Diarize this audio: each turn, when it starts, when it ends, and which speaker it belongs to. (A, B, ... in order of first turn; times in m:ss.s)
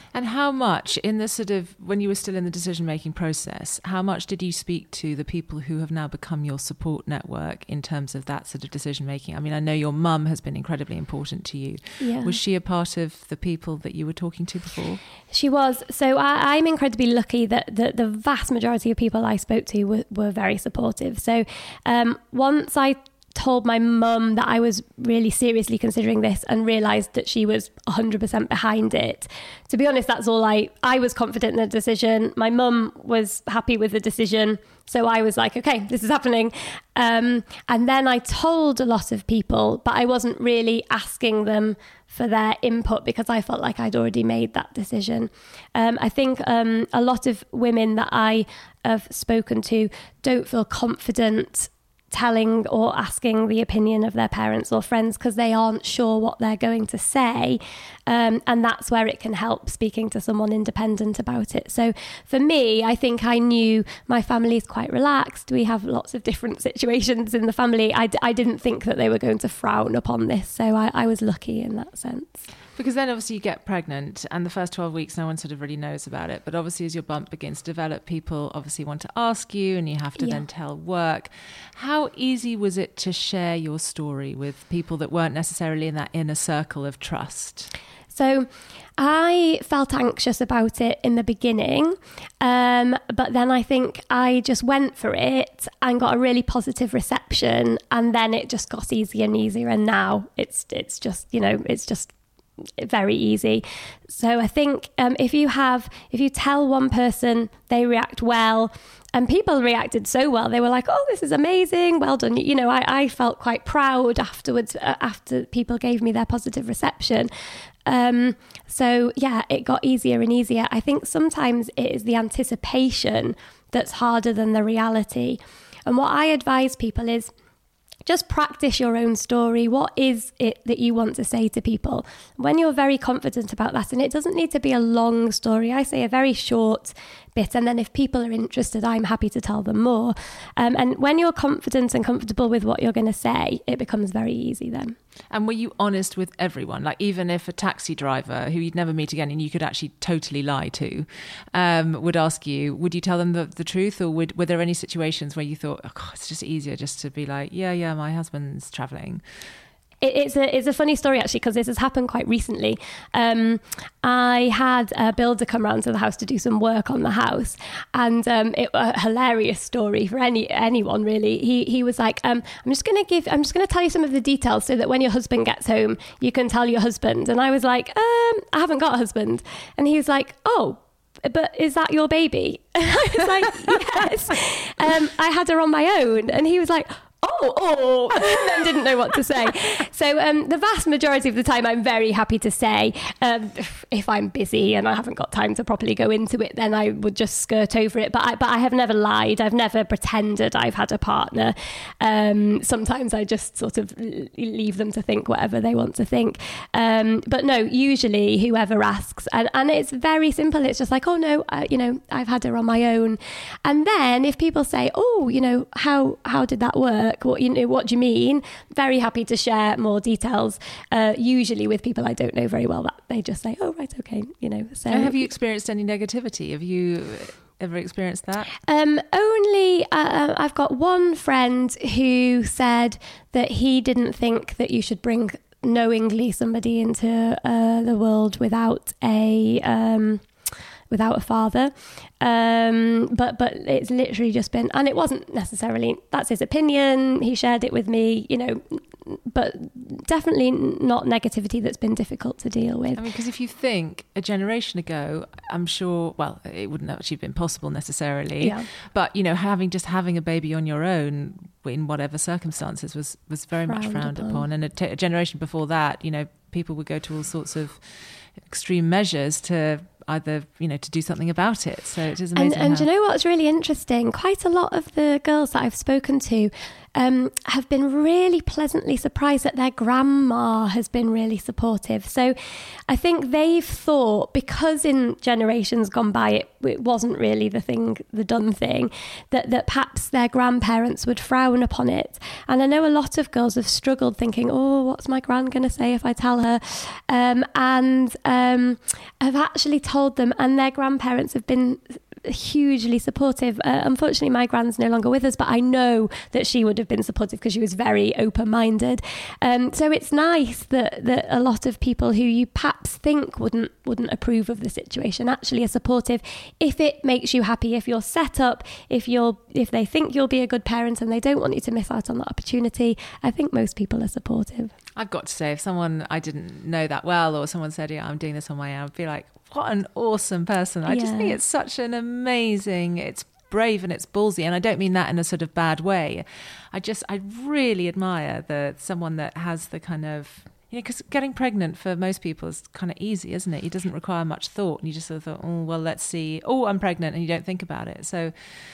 0:00.1-0:15.0 A
0:12.0-0:12.4 B
0:15.3-1:12.4 B
1:12.8-1:27.7 A
1:20.2-1:20.4 B
1:28.1-1:42.1 B
1:42.8-1:57.3 B
1:57.8-2:07.3 B
2:08.0-2:25.0 B
2:25.3-2:39.2 A
2:40.0-3:45.2 B
3:44.9-3:48.5 A
3:48.7-4:00.2 B
4:00.9-4:13.0 B
4:12.9-4:27.8 A
4:18.4-4:18.6 B
4:23.6-4:24.4 B
4:28.4-4:32.9 A
4:32.4-4:42.3 B
4:42.9-5:24.7 B
5:25.0-5:48.3 A
5:30.9-5:31.4 B